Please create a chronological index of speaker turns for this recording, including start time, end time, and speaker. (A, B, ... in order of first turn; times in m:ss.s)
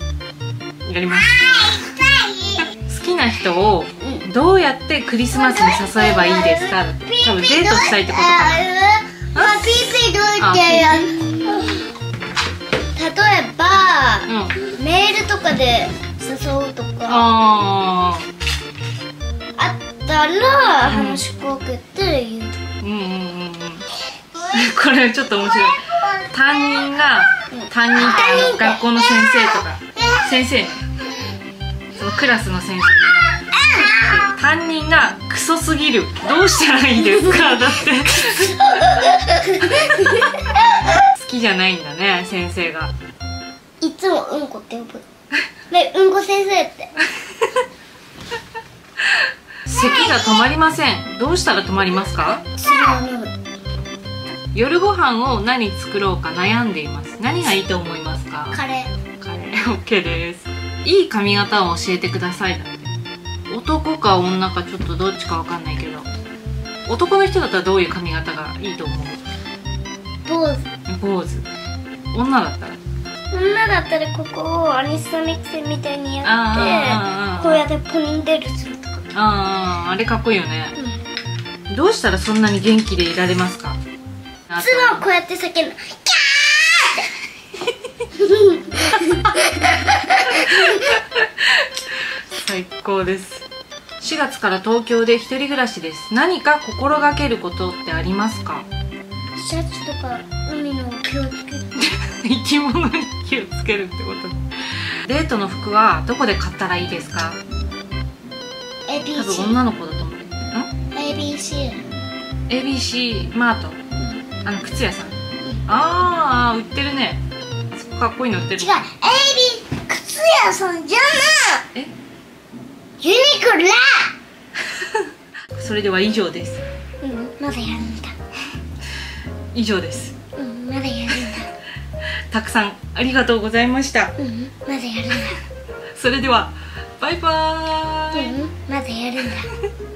0:00.8-0:02.0 A
0:01.7-0:02.4 B
0:02.6-0:08.7 A
0:05.8-0:11.9 B
0:09.3-0:09.7 A
0:10.4-0:11.1 A
0:13.0-0:17.3 B
0:14.2-0:14.5 A
0:17.0-0:18.3 A
0:19.6-0:22.6 B
0:20.9-0:21.2 A
0:22.8-0:23.9 A
0:24.5-0:30.8 A
0:31.9-0:33.2 A
0:33.6-0:34.0 B
0:34.0-0:39.0 A
0:37.2-0:37.6 B
0:38.2-0:40.6 B
0:41.0-0:42.9 A
0:43.8-0:45.0 B
0:45.7-0:46.9 B
0:49.6-0:52.4 A
0:52.5-0:53.3 B
0:54.5-0:58.6 A
0:58.5-0:58.9 B
0:59.2-1:02.9 A
1:03.5-1:06.1 A
1:06.9-1:09.2 A
1:10.2-1:10.7 B
1:10.9-1:11.4 A
1:12.1-1:12.8 A
1:13.3-1:19.1 B
1:16.2-1:17.6 A
1:19.1-1:20.8 A
1:21.7-1:23.8 A
1:24.5-1:25.0 A
1:24.6-1:27.1 B
1:28.1-1:30.9 B
1:28.9-1:33.4 A
1:34.0-1:38.6 A
1:39.4-1:41.7 B
1:41.8-1:47.4 A
1:48.9-1:49.6 B
1:49.1-1:50.7 A
1:50.9-1:51.9 B
1:52.5-1:53.8 A
1:54.0-1:54.2 B
1:54.4-1:58.8 A
1:58.6-2:01.6 B
2:03.0-2:04.1 B
2:04.6-2:06.6 A
2:07.0-2:08.1 B
2:09.5-2:10.1 A
2:10.4-2:11.5 B
2:12.3-2:14.1 A
2:14.2-2:15.4 B
2:15.9-2:18.4 A
2:18.1-2:19.5 B